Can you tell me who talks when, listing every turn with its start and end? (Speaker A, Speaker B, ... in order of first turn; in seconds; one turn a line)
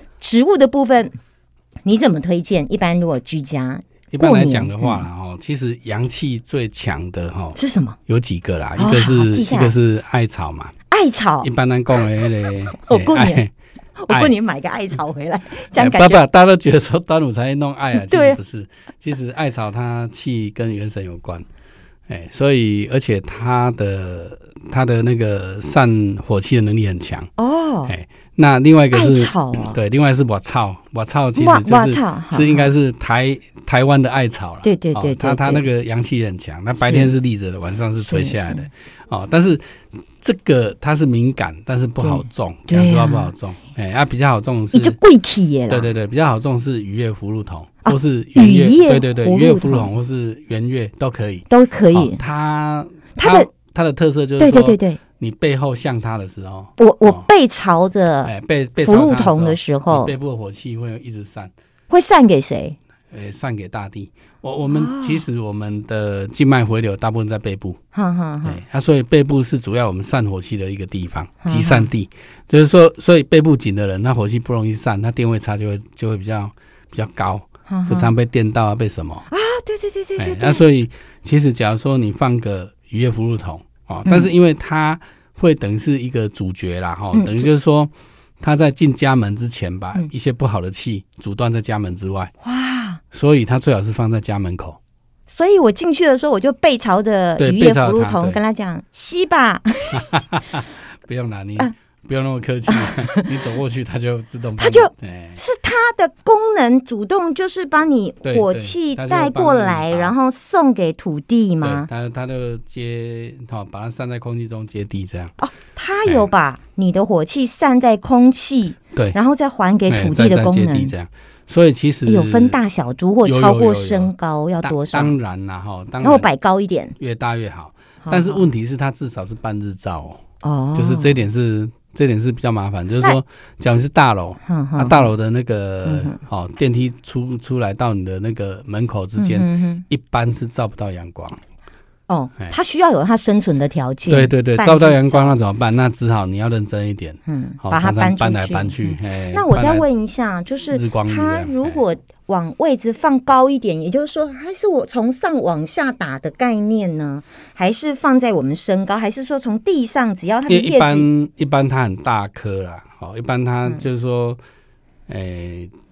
Speaker A: 0.2-1.1
Speaker A: 1.9-5.1
Speaker B: 4.1-7.6
Speaker A: 7.5-8.0
Speaker B: 8.1-10.7
Speaker A: 8.8-9.7
Speaker A: 10.9-12.0
Speaker B: 11.4-13.5
Speaker A: 12.8-13.4
Speaker A: 14.0-16.2
Speaker B: 15.7-21.5
Speaker A: 17.9-18.4
Speaker B: 22.1-27.3
Speaker A: 27.4-27.9
Speaker B: 27.9-45.0
Speaker A: 28.9-29.8
Speaker A: 31.4-32.7
Speaker A: 34.6-35.6
Speaker A: 36.8-37.1
Speaker A: 38.0-38.7
Speaker A: 42.0-43.3
Speaker A: 44.7-45.9
Speaker B: 45.7-57.2
Speaker A: 47.9-49.9
Speaker A: 51.5-52.2
Speaker A: 53.1-53.5
Speaker A: 54.4-55.0
Speaker A: 56.8-60.1
Speaker B: 58.2-61.5
Speaker A: 61.9-62.8
Speaker B: 63.1-67.8
Speaker A: 64.7-65.2
Speaker A: 67.9-68.6
Speaker B: 68.4-79.3
Speaker A: 71.4-71.9
Speaker A: 77.7-78.1
Speaker A: 79.3-80.6
Speaker B: 80.2-92.3
Speaker A: 87.1-87.5
Speaker A: 92.4-93.0
Speaker B: 93.1-94.8
Speaker A: 95.3-100.2
Speaker B: 97.4-98.4
Speaker B: 99.9-105.4
Speaker A: 102.7-103.3
Speaker A: 104.6-111.9
Speaker B: 108.2-110.1
Speaker B: 111.6-115.3
Speaker A: 115.4-120.9
Speaker B: 119.9-122.6
Speaker A: 122.1-125.1
Speaker B: 123.2-124.1
Speaker B: 124.6-126.3
Speaker A: 126.0-127.0
Speaker B: 127.0-130.2
Speaker A: 128.0-128.4
Speaker A: 130.4-131.2
Speaker B: 130.8-141.4
Speaker A: 134.4-135.1
Speaker A: 135.8-136.2
Speaker A: 139.2-139.8
Speaker A: 142.1-145.3
Speaker B: 144.1-149.8
Speaker A: 147.3-161.1
Speaker B: 150.7-151.8
Speaker B: 160.5-164.4
Speaker B: 165.1-165.7